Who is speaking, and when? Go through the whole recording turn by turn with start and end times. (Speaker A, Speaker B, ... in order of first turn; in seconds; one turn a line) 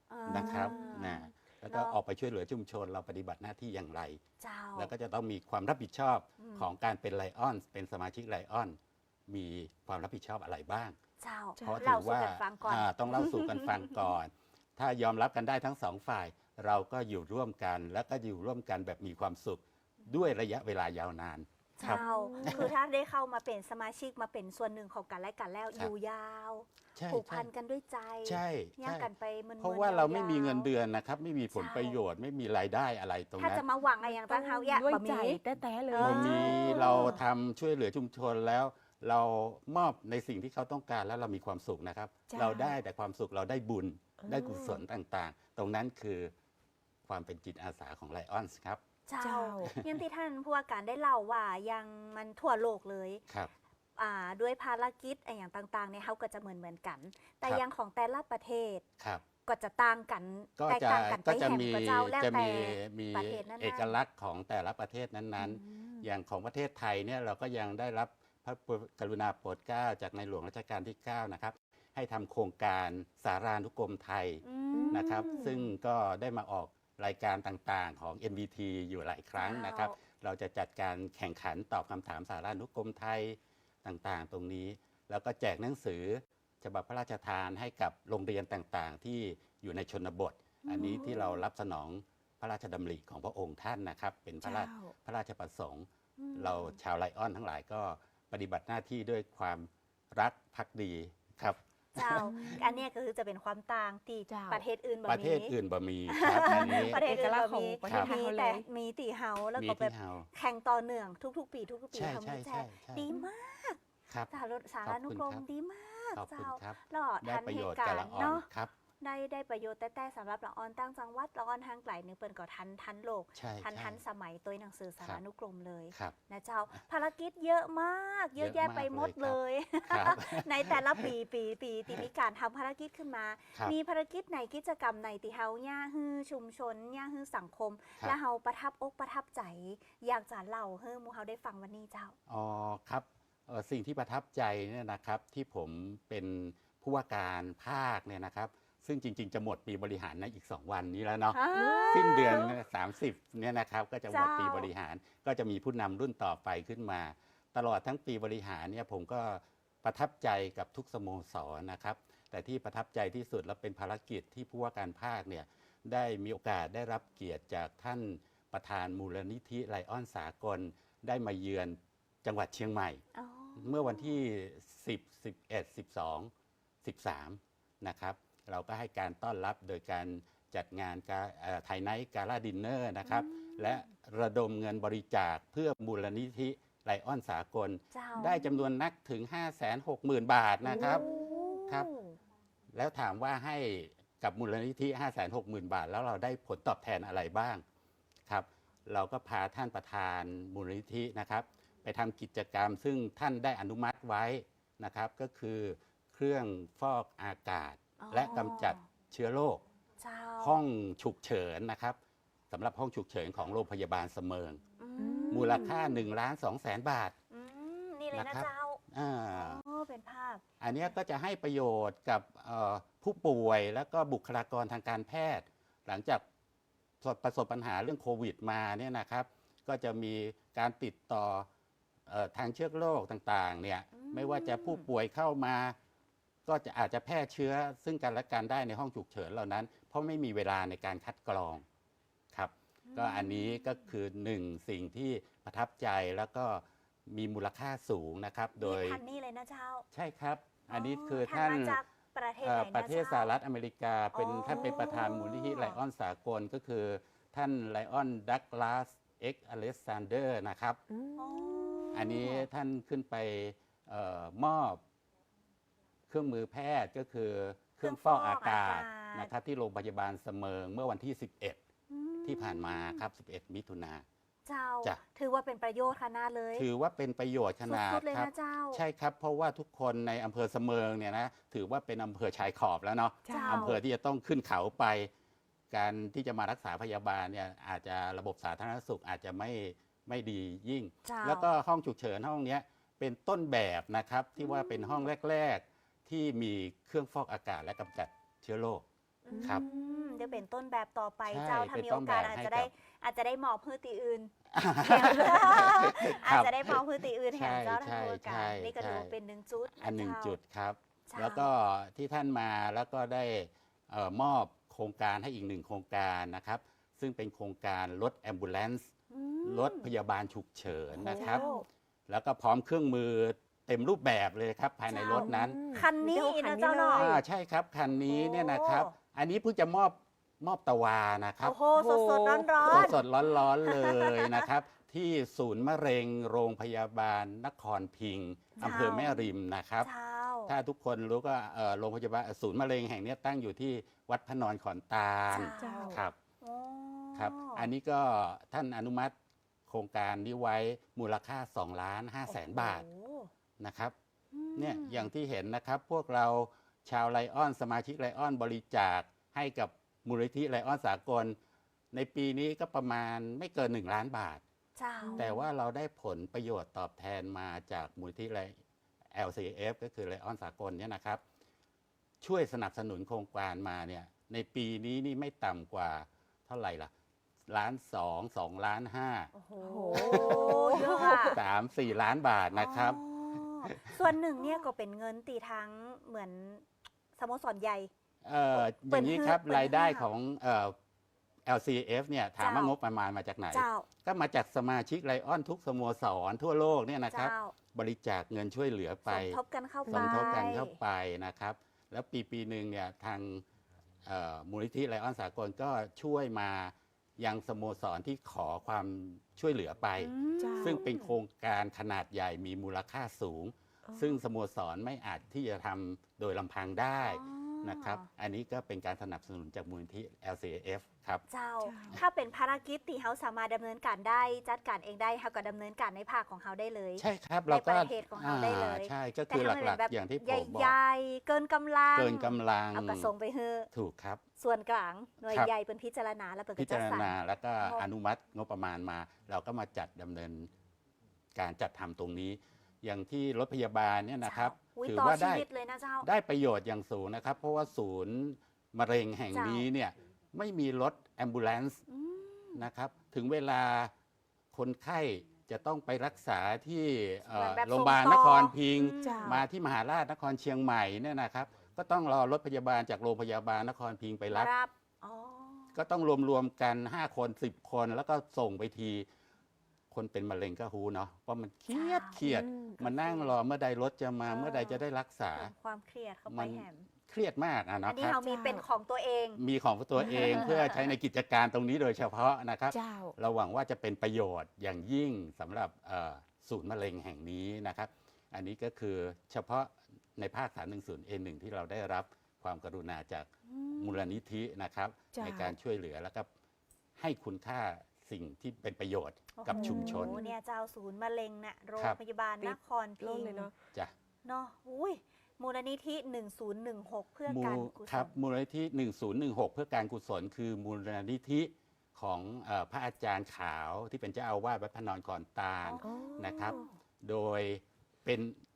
Speaker A: 0.1-2.0
Speaker B: 0.3-4.2
Speaker C: 0.3-1.1
Speaker A: 4.4-4.9
Speaker B: 4.8-11.0
Speaker A: 6.4-6.7
Speaker A: 11.2-13.9
Speaker C: 11.6-11.9
Speaker B: 11.6-22.7
Speaker A: 21.8-30.7
Speaker C: 21.8-22.7
Speaker B: 26.9-27.5
Speaker B: 28.3-33.6
Speaker A: 31.5-32.0
Speaker A: 33.4-37.2
Speaker C: 34.0-37.2
Speaker B: 36.0-46.3
Speaker C: 42.3-42.8
Speaker C: 44.2-44.8
Speaker B: 47.1-48.8
Speaker A: 49.1-53.2
Speaker C: 49.2-49.8
Speaker B: 49.7-50.0
Speaker A: 54.0-58.8
Speaker B: 59.0-59.2
Speaker A: 59.5-63.9
Speaker B: 60.6-102.6
Speaker C: 65.4-66.0
Speaker A: 74.4-75.6
Speaker C: 74.7-75.6
Speaker A: 79.4-80.0
Speaker A: 90.6-91.4
Speaker C: 90.8-91.2
Speaker C: 94.4-95.0
Speaker A: 96.2-96.8
Speaker A: 102.0-105.5
Speaker C: 102.2-102.8
Speaker C: 104.3-104.6
Speaker B: 105.1-107.0
Speaker A: 106.1-113.8
Speaker C: 106.4-108.7
Speaker B: 107.9-108.1
Speaker B: 109.6-110.3
Speaker B: 111.9-113.1
Speaker A: 114.3-118.5
Speaker B: 114.8-115.4
Speaker B: 116.2-118.7
Speaker A: 119.0-142.2
Speaker B: 123.4-124.0
Speaker B: 128.4-131.1
Speaker B: 142.3-173.0
Speaker A: 151.3-152.6
Speaker C: 151.6-152.5
Speaker A: 154.1-154.7
Speaker A: 173.2-174.2
Speaker B: 173.6-176.3
Speaker B: 176.8-191.1
Speaker A: 183.1-183.8
Speaker A: 187.9-188.6
Speaker C: 190.7-191.6
Speaker A: 190.7-192.2
Speaker B: 192.7-197.6
Speaker B: 198.3-209.6
Speaker A: 208.0-208.8
Speaker A: 210.0-210.6
Speaker B: 210.4-212.0
Speaker B: 212.5-214.6
Speaker A: 214.8-216.0
Speaker C: 215.0-215.8
Speaker B: 215.3-217.2
Speaker A: 217.3-218.8
Speaker B: 218.1-219.6
Speaker A: 219.3-220.4
Speaker B: 220.6-226.2
Speaker B: 227.0-231.5
Speaker B: 232.1-235.8
Speaker A: 233.9-234.9
Speaker B: 236.5-241.7
Speaker B: 242.3-249.0
Speaker A: 242.9-243.9
Speaker A: 248.6-249.9
Speaker B: 249.9-251.8
Speaker A: 250.7-253.3
Speaker B: 252.4-260.8
Speaker A: 254.1-255.6
Speaker C: 254.5-254.9
Speaker C: 260.9-262.3
Speaker A: 261.2-262.4
Speaker B: 261.9-264.8
Speaker B: 266.1-271.6
Speaker A: 267.8-269.3
Speaker A: 271.9-273.1
Speaker B: 272.2-274.1
Speaker A: 274.5-276.7
Speaker B: 276.6-285.1
Speaker A: 277.7-278.8
Speaker C: 283.2-283.8
Speaker A: 283.3-283.8
Speaker B: 285.7-298.9
Speaker A: 291.1-291.5
Speaker A: 294.4-295.0
Speaker A: 299.2-310.4
Speaker C: 299.3-300.4
Speaker B: 301.3-302.7
Speaker B: 304.5-309.1
Speaker B: 309.7-318.9
Speaker A: 311.1-311.5
Speaker A: 319.1-319.9
Speaker B: 319.4-321.4
Speaker A: 321.0-321.6
Speaker C: 321.0-321.6
Speaker B: 322.1-325.7
Speaker A: 324.9-327.1
Speaker C: 325.1-327.2
Speaker B: 326.9-331.6
Speaker A: 328.1-328.9
Speaker A: 331.4-333.0
Speaker C: 331.8-333.0
Speaker B: 332.6-339.9
Speaker A: 333.6-334.4
Speaker C: 338.6-338.8
Speaker A: 338.6-339.3
Speaker A: 339.8-340.6
Speaker B: 340.5-346.2
Speaker A: 345.3-347.7
Speaker C: 345.6-346.0
Speaker B: 347.1-349.1
Speaker B: 349.7-352.9
Speaker A: 352.3-353.3
Speaker B: 353.6-353.9
Speaker A: 354.3-355.1
Speaker B: 354.6-361.4
Speaker B: 361.9-364.4
Speaker A: 364.8-365.3
Speaker C: 365.0-365.4
Speaker B: 365.2-368.6
Speaker B: 369.1-371.2
Speaker B: 372.2-376.9
Speaker B: 377.5-379.3
Speaker A: 379.3-381.4
Speaker C: 379.6-381.4
Speaker B: 379.9-384.0
Speaker A: 382.6-386.7
Speaker A: 387.2-387.9
Speaker B: 388.2-390.8
Speaker A: 388.6-390.1
Speaker B: 391.5-403.4
Speaker A: 392.4-392.7
Speaker A: 393.5-393.9
Speaker A: 397.1-397.5
Speaker A: 399.1-400.8
Speaker C: 399.9-400.2
Speaker B: 404.0-421.2
Speaker A: 410.0-411.1
Speaker C: 410.4-411.0
Speaker C: 413.9-414.2
Speaker A: 417.0-418.1
Speaker A: 421.3-433.7
Speaker C: 421.6-422.0
Speaker B: 427.0-430.8
Speaker B: 431.9-433.1
Speaker B: 433.7-434.2
Speaker A: 434.4-437.9
Speaker B: 436.6-440.5
Speaker B: 441.4-445.5
Speaker A: 444.2-446.1
Speaker B: 446.0-451.8
Speaker A: 449.3-449.7
Speaker A: 451.9-452.6
Speaker B: 452.6-453.9
Speaker B: 454.5-464.5
Speaker A: 457.3-459.4
Speaker C: 459.0-459.4
Speaker A: 464.3-465.8
Speaker B: 465.7-469.1
Speaker B: 469.9-475.5
Speaker A: 471.7-472.2
Speaker C: 472.2-473.0
Speaker A: 474.3-474.8
Speaker A: 475.3-476.9
Speaker B: 476.3-478.3
Speaker A: 477.9-479.4
Speaker C: 478.3-478.6
Speaker B: 479.4-496.3
Speaker C: 480.0-480.4
Speaker C: 482.7-483.1
Speaker A: 493.5-494.2
Speaker C: 495.1-495.6
Speaker B: 497.0-500.2
Speaker A: 499.4-503.5
Speaker C: 499.5-500.4
Speaker C: 502.4-503.6
Speaker A: 504.2-508.1
Speaker B: 507.3-518.4
Speaker A: 515.6-516.7
Speaker C: 515.8-516.6